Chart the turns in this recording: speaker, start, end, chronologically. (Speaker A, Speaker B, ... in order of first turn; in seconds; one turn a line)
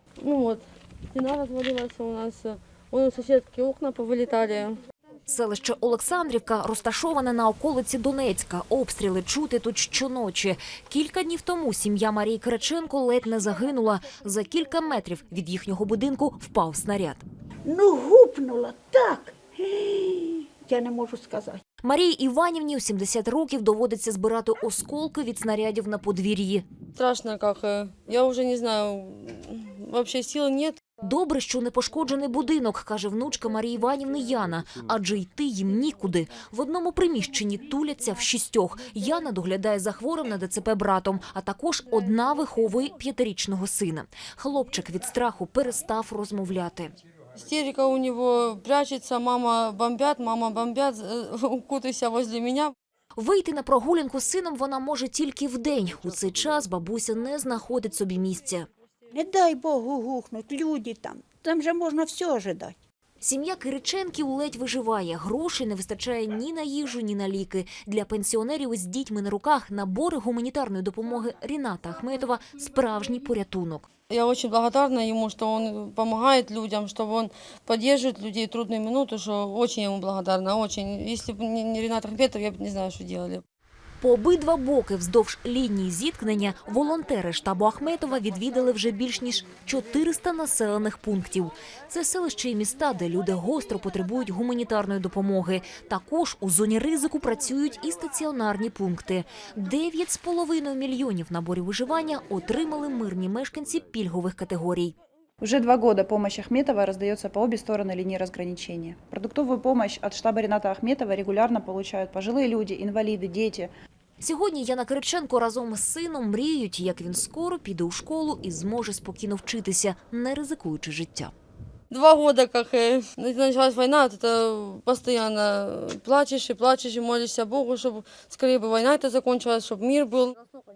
Speaker A: 0.2-4.8
Speaker B: 5.3-17.2
Speaker C: 17.6-21.6
Speaker B: 21.8-26.6
Speaker A: 26.9-30.8
Speaker B: 31.0-46.9
Speaker A: 47.3-52.7
Speaker B: 53.1-58.7
Speaker C: 59.1-62.8
Speaker B: 63.2-73.9
Speaker A: 74.1-83.4
Speaker B: 84.0-104.9
Speaker D: 105.4-113.7
Speaker B: 114.2-121.3
Speaker A: 121.9-130.6